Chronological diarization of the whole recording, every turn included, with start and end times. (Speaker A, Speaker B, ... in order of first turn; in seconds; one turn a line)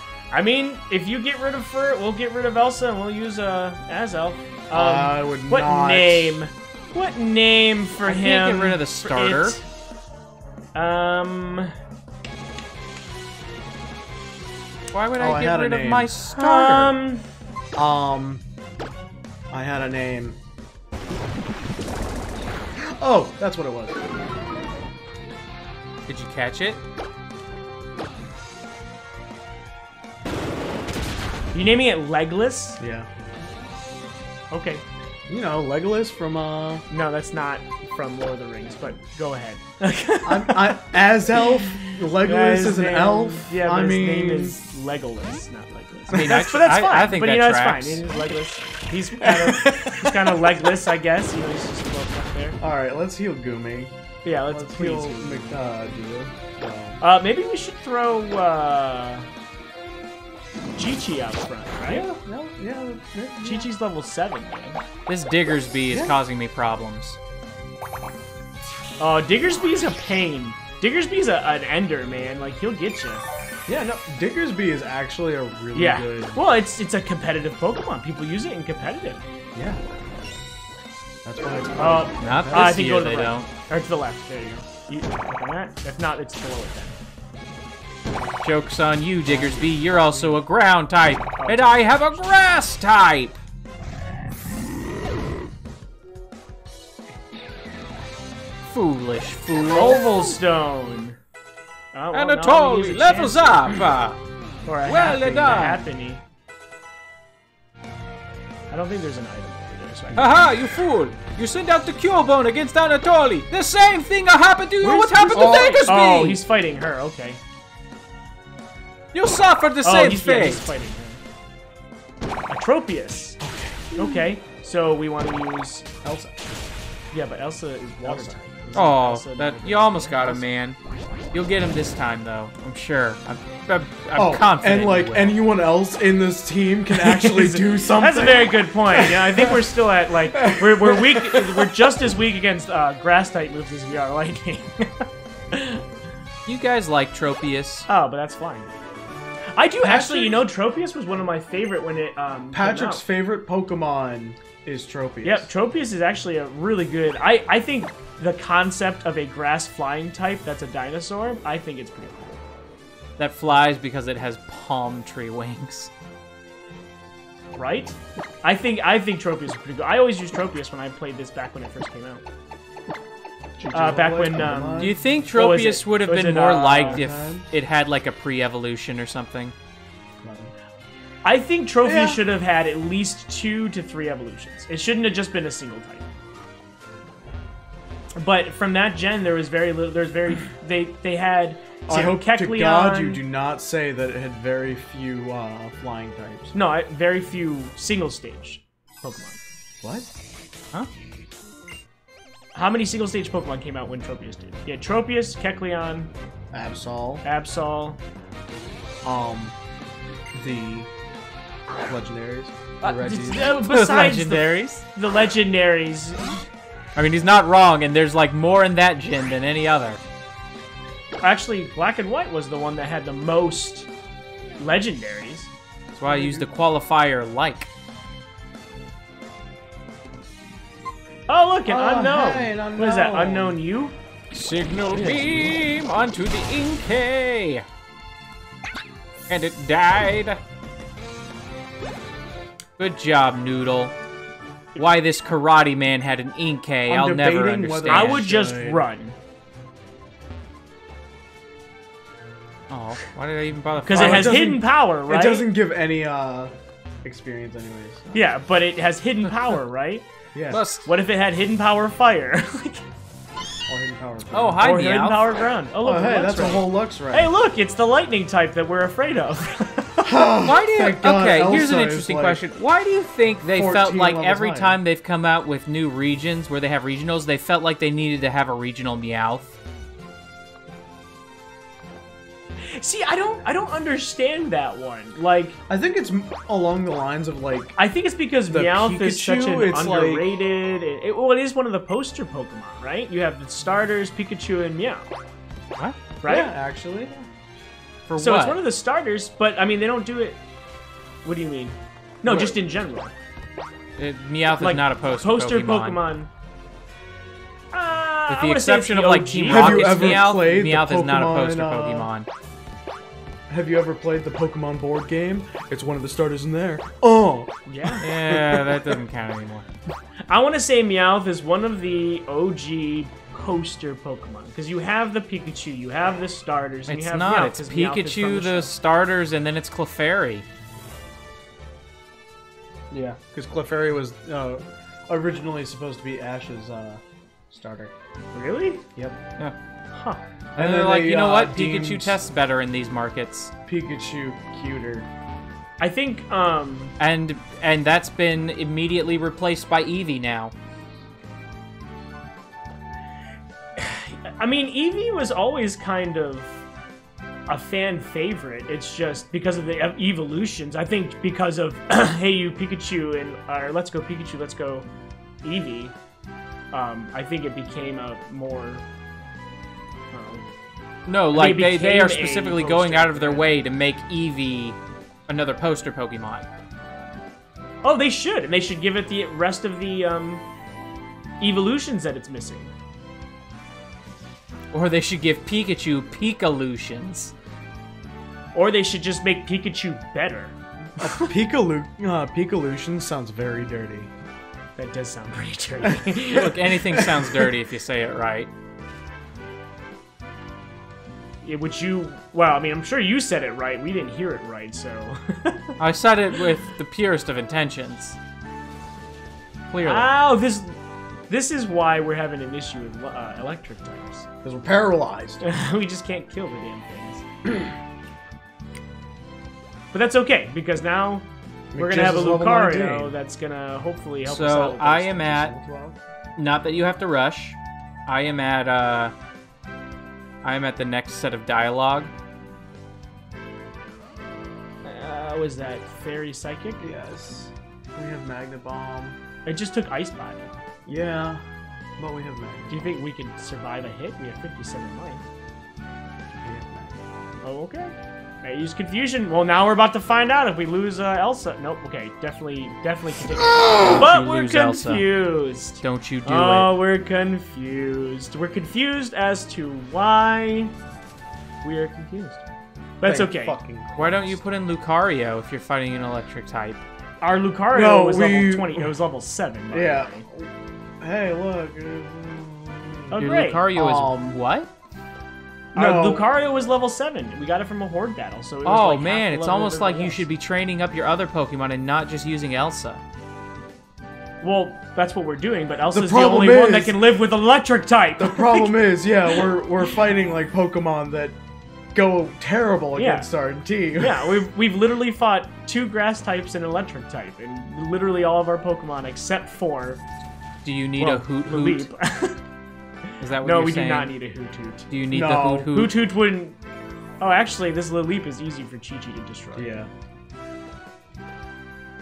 Speaker A: 0.3-9.6
Speaker B: 4.7-6.4
Speaker C: 8.1-9.6
Speaker A: 10.7-11.7
Speaker C: 14.9-17.0
Speaker B: 15.2-16.1
Speaker A: 16.3-17.2
Speaker B: 17.8-18.4
Speaker B: 19.5-20.4
Speaker B: 22.8-24.1
Speaker C: 26.1-26.8
Speaker A: 31.5-32.8
Speaker B: 32.8-33.1
Speaker A: 34.5-34.8
Speaker B: 35.3-36.9
Speaker A: 36.9-40.8
Speaker B: 40.2-44.6
Speaker A: 41.4-52.6
Speaker C: 46.1-48.0
Speaker B: 49.2-50.7
Speaker B: 52.6-53.9
Speaker A: 54.2-55.5
Speaker B: 54.5-57.0
Speaker A: 57.0-59.3
Speaker A: 60.8-62.0
Speaker B: 61.9-63.7
Speaker A: 63.4-64.8
Speaker C: 65.1-67.2
Speaker B: 65.9-66.1
Speaker A: 69.0-73.2
Speaker B: 73.7-76.4
Speaker A: 75.7-79.2
Speaker B: 79.5-79.8
Speaker B: 81.2-82.9
Speaker A: 81.8-87.0
Speaker C: 82.2-83.5
Speaker C: 88.4-93.4
Speaker B: 89.2-90.4
Speaker A: 91.4-92.0
Speaker C: 98.7-100.4
Speaker A: 99.7-101.2
Speaker A: 101.9-103.7
Speaker C: 102.1-104.2
Speaker A: 104.7-106.2
Speaker C: 104.8-105.8
Speaker B: 105.2-105.6
Speaker A: 108.7-110.5
Speaker C: 110.1-116.4
Speaker A: 114.8-117.4
Speaker B: 115.1-116.0
Speaker C: 119.1-120.7
Speaker A: 119.8-121.2
Speaker A: 122.5-123.4
Speaker B: 123.4-124.3
Speaker A: 123.9-126.0
Speaker B: 126.0-126.3
Speaker A: 127.1-130.4
Speaker B: 128.0-128.4
Speaker C: 128.7-130.8
Speaker C: 131.3-135.4
Speaker B: 134.2-139.6
Speaker A: 136.9-145.8
Speaker B: 140.3-141.7
Speaker C: 146.4-147.9
Speaker A: 147.9-148.7
Speaker A: 149.5-153.0
Speaker B: 149.8-150.4
Speaker B: 152.5-155.5
Speaker A: 155.2-162.4
Speaker C: 163.2-165.9
Speaker A: 167.6-172.2
Speaker B: 173.6-175.0
Speaker A: 173.7-177.0
Speaker C: 174.8-179.5
Speaker B: 176.7-177.4
Speaker B: 180.2-180.5
Speaker A: 181.2-186.1
Speaker B: 181.8-182.2
Speaker A: 188.2-193.2
Speaker B: 191.9-196.5
Speaker A: 196.5-199.4
Speaker B: 199.8-200.1
Speaker A: 202.5-206.1
Speaker B: 206.5-207.2
Speaker A: 207.2-208.0
Speaker B: 209.0-209.6
Speaker B: 210.3-210.9
Speaker B: 211.9-213.6
Speaker A: 212.8-216.4
Speaker C: 213.5-214.8
Speaker C: 216.9-220.0
Speaker A: 221.2-223.9
Speaker A: 224.6-225.5
Speaker C: 225.9-227.7
Speaker B: 226.1-226.5
Speaker A: 231.3-233.9
Speaker B: 231.7-233.6
Speaker C: 234.3-237.6
Speaker B: 234.9-235.5
Speaker C: 239.3-240.4
Speaker C: 242.8-243.9
Speaker C: 244.8-248.2
Speaker B: 246.9-248.8
Speaker A: 247.9-249.2
Speaker C: 252.7-254.3
Speaker A: 253.8-255.5
Speaker B: 253.9-256.5
Speaker B: 257.0-258.2
Speaker A: 258.1-260.1
Speaker B: 260.3-260.6
Speaker C: 260.5-260.9
Speaker A: 260.9-262.8
Speaker B: 263.7-264.7
Speaker C: 264.3-265.3
Speaker A: 264.6-270.1
Speaker B: 265.8-267.3
Speaker B: 270.0-272.4
Speaker C: 270.4-279.5
Speaker B: 273.5-274.8
Speaker A: 282.6-285.6
Speaker B: 285.7-287.8
Speaker A: 287.8-295.1
Speaker B: 288.5-290.4
Speaker A: 296.2-296.5
Speaker B: 296.2-297.3
Speaker C: 298.1-298.6
Speaker A: 298.2-300.4
Speaker A: 301.2-303.1
Speaker B: 302.2-302.6
Speaker C: 304.0-306.0
Speaker A: 304.6-306.3
Speaker A: 307.7-310.2
Speaker C: 308.3-312.3
Speaker B: 309.5-312.1
Speaker B: 313.5-319.0
Speaker A: 317.7-318.0
Speaker C: 318.0-319.7
Speaker A: 320.3-328.7
Speaker C: 326.9-330.4
Speaker B: 332.9-337.9
Speaker A: 338.3-338.9
Speaker A: 339.9-340.2
Speaker C: 340.5-343.5
Speaker B: 340.6-342.2
Speaker B: 343.6-345.1
Speaker A: 345.8-346.9
Speaker C: 347.0-350.5
Speaker A: 353.8-356.6
Speaker A: 357.5-364.9
Speaker A: 365.4-365.9
Speaker A: 366.7-368.8
Speaker A: 370.1-370.4
Speaker C: 371.1-376.5
Speaker A: 371.3-373.5
Speaker A: 377.8-380.4
Speaker A: 381.4-382.7
Speaker C: 384.7-387.3
Speaker A: 388.5-391.3
Speaker B: 391.0-394.1
Speaker A: 394.8-396.7
Speaker B: 395.8-396.2
Speaker C: 396.3-398.5
Speaker B: 396.9-397.5
Speaker A: 401.4-405.8
Speaker C: 405.8-408.1
Speaker C: 409.7-410.1
Speaker A: 409.8-410.7
Speaker A: 411.3-414.2
Speaker B: 414.4-415.4
Speaker A: 415.4-417.2
Speaker A: 419.9-425.3
Speaker B: 421.7-423.1
Speaker C: 424.2-425.5
Speaker B: 425.3-426.0
Speaker C: 426.4-429.1
Speaker C: 430.4-432.1
Speaker A: 434.8-436.8
Speaker B: 436.8-439.2
Speaker A: 439.4-440.5
Speaker B: 440.9-441.4
Speaker B: 442.0-442.9
Speaker A: 442.7-445.2
Speaker B: 446.4-447.4
Speaker A: 447.4-460.7
Speaker C: 453.8-455.1
Speaker C: 455.8-456.7
Speaker A: 461.6-462.4
Speaker A: 463.0-463.6
Speaker B: 463.0-464.4
Speaker C: 463.9-466.8
Speaker A: 467.2-470.2
Speaker B: 467.7-468.9
Speaker B: 469.7-474.4
Speaker A: 473.1-473.6
Speaker C: 473.2-474.7
Speaker A: 475.7-480.2
Speaker B: 475.7-476.2
Speaker C: 478.6-483.0
Speaker A: 484.4-488.7
Speaker B: 485.9-487.0
Speaker B: 488.2-491.4
Speaker B: 491.9-494.4
Speaker A: 492.9-493.3
Speaker A: 494.0-500.0
Speaker C: 500.6-501.9
Speaker A: 501.0-502.4
Speaker A: 503.1-504.9
Speaker C: 503.2-504.1
Speaker C: 504.9-505.9
Speaker B: 505.1-505.7
Speaker A: 505.7-506.6
Speaker A: 507.2-509.8
Speaker B: 509.5-509.9